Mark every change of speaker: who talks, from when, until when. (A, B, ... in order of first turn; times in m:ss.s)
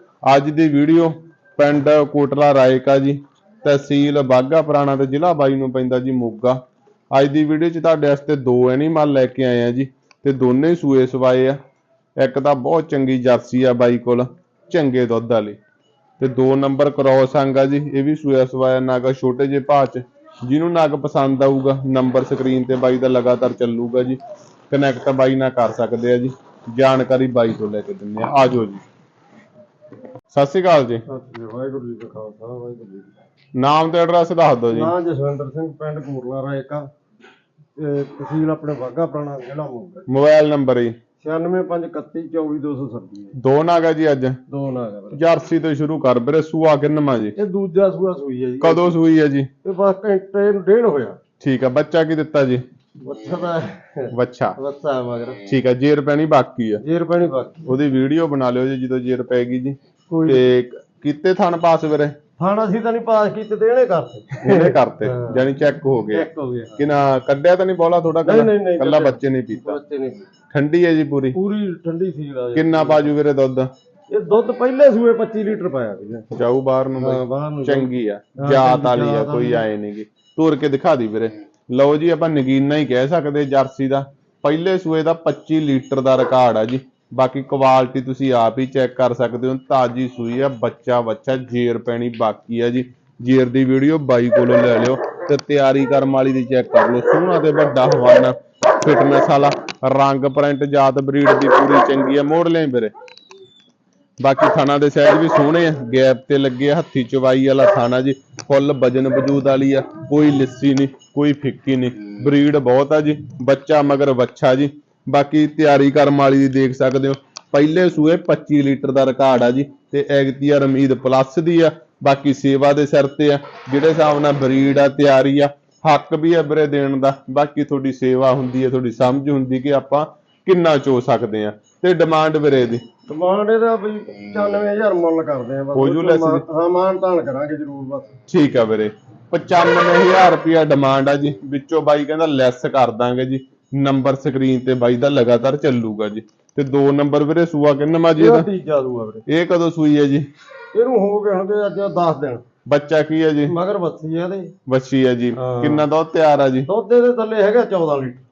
0:00.2-0:06.6 A
0:07.1-0:11.6 A
0:12.2-0:15.6 A
0:16.2-0:24.2 A
0:24.7-0:28.8 A
0:30.3-0:31.0 A
0:31.1-0:33.2 B
0:33.6-0:34.9 A
0:34.7-0:36.9 B
0:37.8-0:40.1 B
0:40.1-0:41.0 A
0:41.2-0:43.3 B
0:43.4-0:44.4 A
0:44.5-0:45.2 B
0:45.1-0:47.4 A
0:47.4-0:48.9 B
0:48.6-0:49.5 A
0:49.6-0:51.2 B
0:51.4-0:52.6 A
0:53.0-0:55.4 B
0:54.1-0:54.6 A
0:55.5-0:56.8 A
0:56.8-0:57.7 B
0:57.7-1:02.2 A
1:00.1-1:00.5 B
1:02.4-1:05.5 B
1:04.4-1:09.8 A
1:06.1-1:06.8 B
1:08.2-1:10.2 B
1:10.5-1:11.4 A
1:11.3-1:13.1 B
1:12.6-1:13.7 A
1:14.1-1:16.3 B
1:16.3-1:42.9 A
1:17.0-1:19.6 B
1:44.2-2:12.8 A
2:13.1-2:18.1 B
2:15.8-2:16.4 A
2:18.3-2:28.5 A
2:28.2-2:29.2 B
2:29.3-2:30.3 A
2:30.7-2:32.4 B
2:32.7-2:33.5 A
2:33.5-2:34.5 B
2:34.7-2:36.7 A
2:35.4-2:35.8 B
2:36.6-2:38.2 B